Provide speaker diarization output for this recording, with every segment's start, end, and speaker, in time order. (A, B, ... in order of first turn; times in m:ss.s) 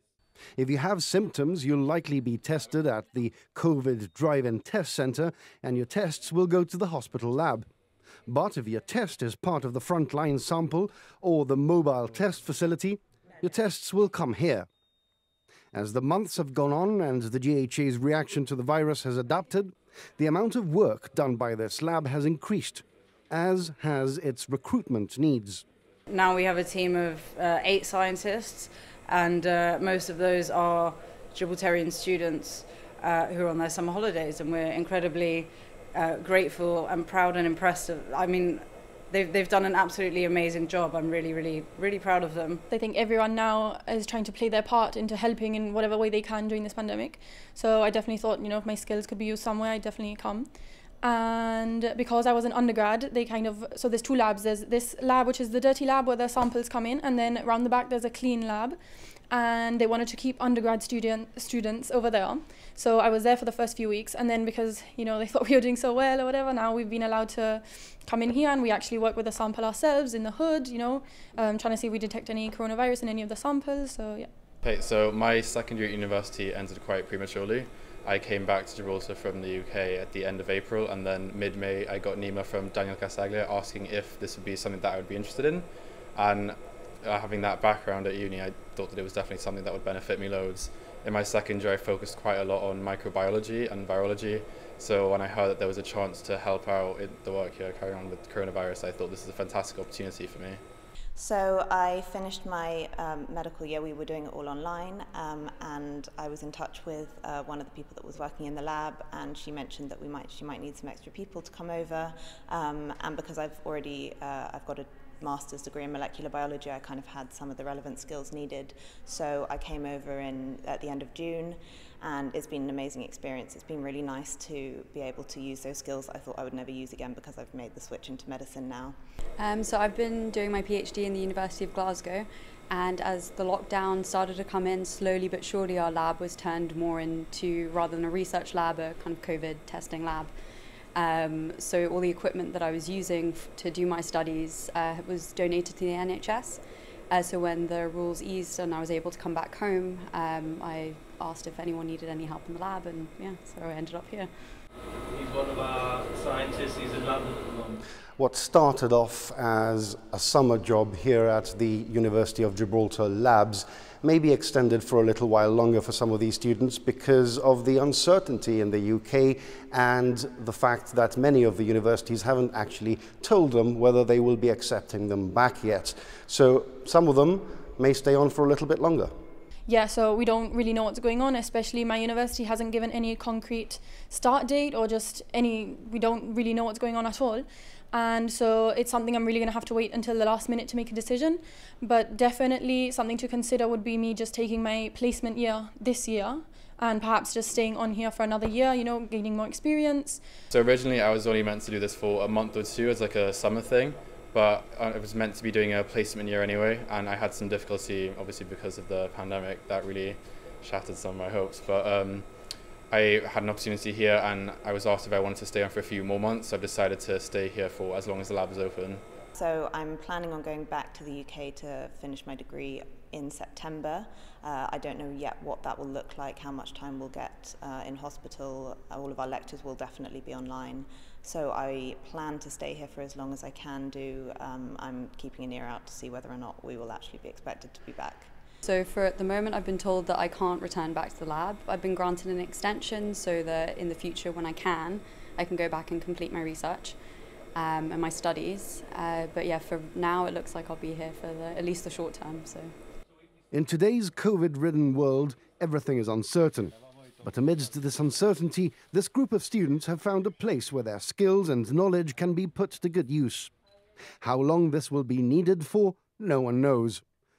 0:00.6-0:07.7 A
0:08.3-0:14.7 A
0:15.7-0:25.6 A
0:26.1-0:42.6 B
0:42.7-0:50.5 C
0:51.0-0:58.8 C
0:59.3-1:14.3 C
1:14.6-1:40.6 D
1:41.2-2:09.0 E
2:09.4-2:20.3 F
2:21.0-2:34.3 F
2:35.1-2:37.8 G
2:38.2-2:59.1 A
2:59.7-3:20.2 C
3:20.5-3:32.3 D
3:32.9-3:39.0 D
3:39.4-3:58.3 E
3:58.6-4:07.0 F
4:07.6-4:12.7 F
4:13.5-4:23.5 A
4:24.2-4:27.0 A